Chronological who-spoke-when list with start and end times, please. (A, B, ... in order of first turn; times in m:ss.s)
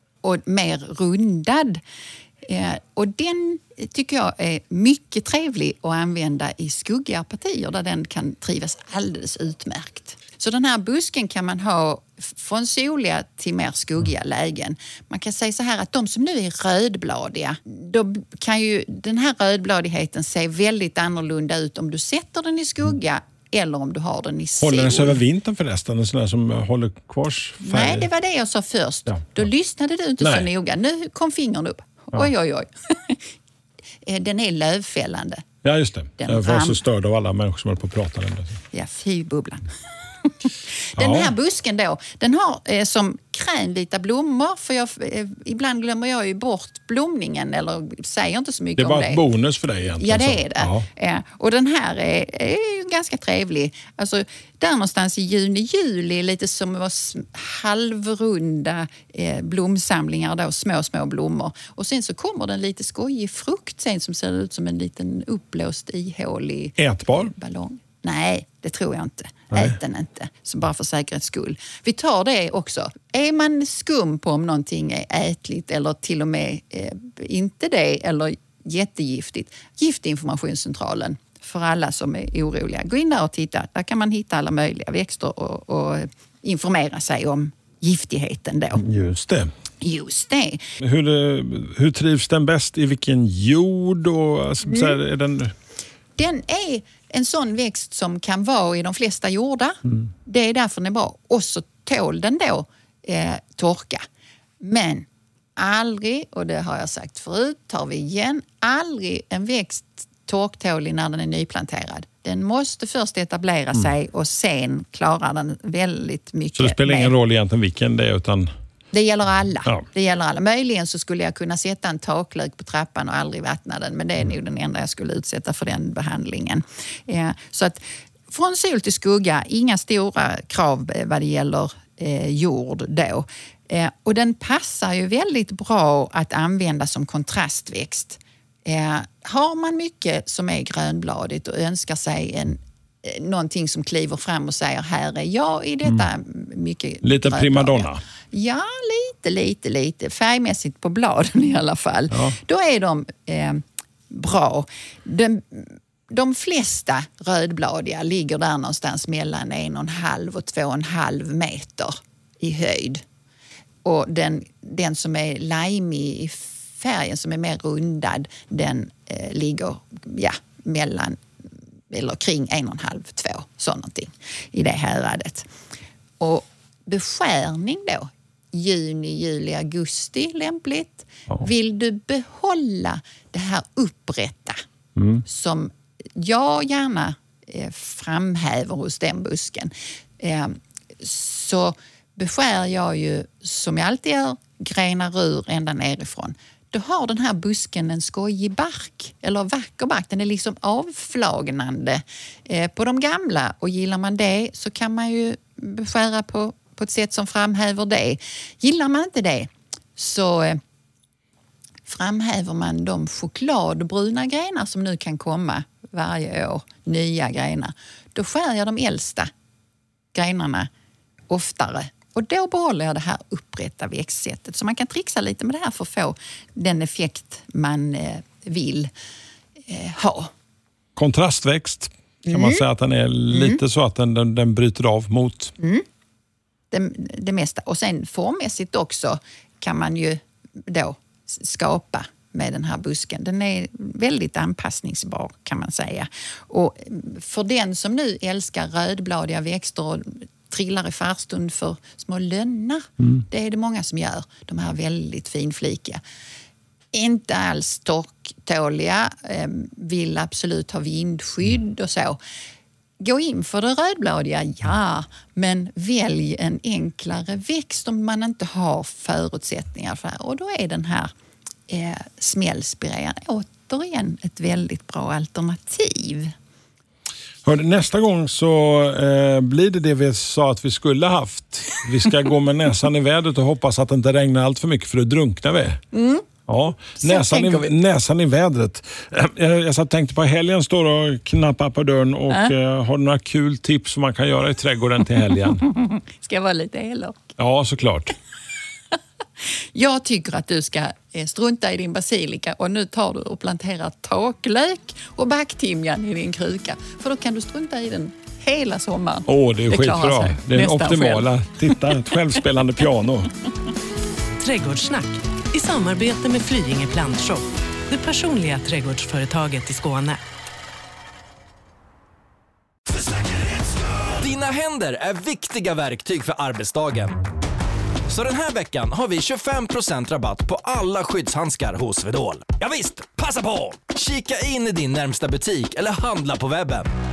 0:00.2-0:01.8 A
0:02.5-0:25.2 A
0:24.6-0:28.1 B
0:27.6-0:33.3 A
0:30.2-0:30.5 B
0:34.0-0:35.4 A
0:35.6-0:38.6 B
0:36.2-0:36.8 A
0:38.7-0:49.2 A
0:41.0-0:41.3 B
0:48.8-0:50.9 B
0:50.0-1:28.9 A
1:06.8-1:07.3 B
1:09.5-1:09.8 B
1:28.8-1:29.5 B
1:29.8-1:30.6 A
1:30.8-1:35.6 B
1:34.7-1:35.0 A
1:36.2-1:44.0 A
1:44.6-1:57.1 A
1:56.6-1:58.5 B
1:58.9-2:43.0 A
2:27.0-2:28.0 B
2:43.8-2:51.2 A
2:51.9-2:55.5 A
2:56.2-3:04.6 A
3:05.0-3:05.2 B
3:05.2-3:30.6 A
3:31.9-3:39.3 A
3:40.1-3:40.7 A
3:41.3-3:48.9 A
3:49.7-3:50.3 A
3:51.0-3:55.5 B
3:52.3-3:52.6 A
3:53.3-3:53.6 A
3:55.6-3:55.8 A
3:56.7-4:16.0 A
4:16.9-4:22.2 A
4:23.0-4:31.1 A
4:31.7-4:36.3 A
4:37.4-4:45.8 B
4:45.9-4:46.2 A
4:46.5-4:55.7 B
4:47.0-4:47.7 A
4:55.6-4:57.3 A
4:57.4-4:58.1 B
4:59.4-5:12.0 A
5:09.3-5:13.3 B
5:14.4-5:20.2 C
5:22.9-5:27.2 D
5:28.1-5:36.9 D